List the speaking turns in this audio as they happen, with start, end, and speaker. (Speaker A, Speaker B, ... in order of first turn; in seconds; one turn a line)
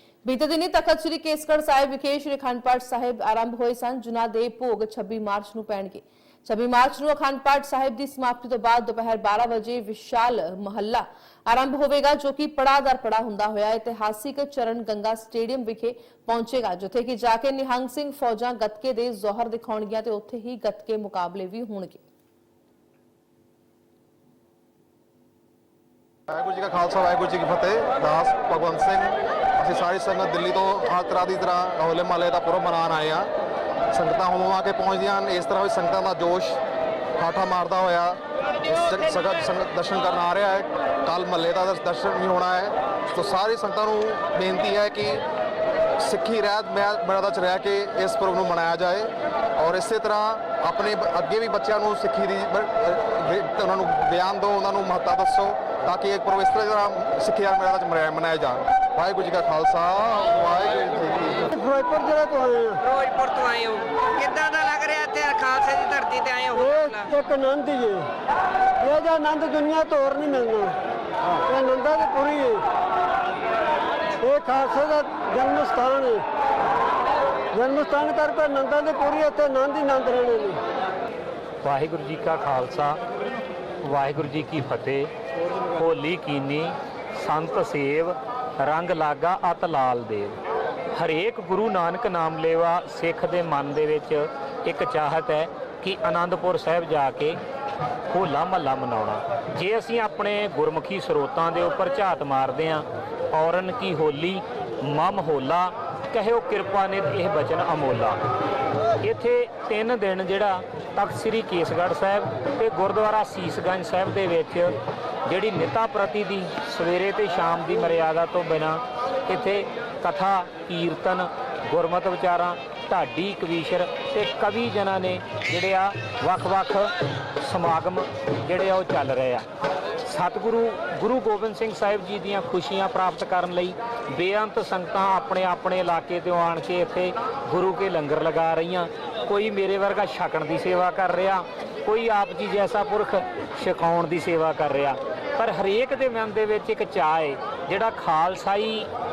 Speaker A: 0.2-22.0
Speaker B: 26.3-33.3
Speaker B: 33.9-36.6
Speaker B: 37.2-45.2
Speaker B: 46.0-61.5
Speaker C: 61.5-62.9
Speaker D: 62.9-67.0
Speaker C: 66.5-68.1
Speaker C: 68.8-70.8
Speaker C: 71.4-72.7
Speaker C: 74.2-76.3
Speaker C: 77.5-80.6
Speaker E: 81.6-83.0
Speaker E: 83.8-85.1
Speaker E: 85.7-90.4
Speaker E: 90.9-97.4
Speaker E: 98.1-108.2
Speaker E: 109.0-129.4
Speaker E: 130.1-148.9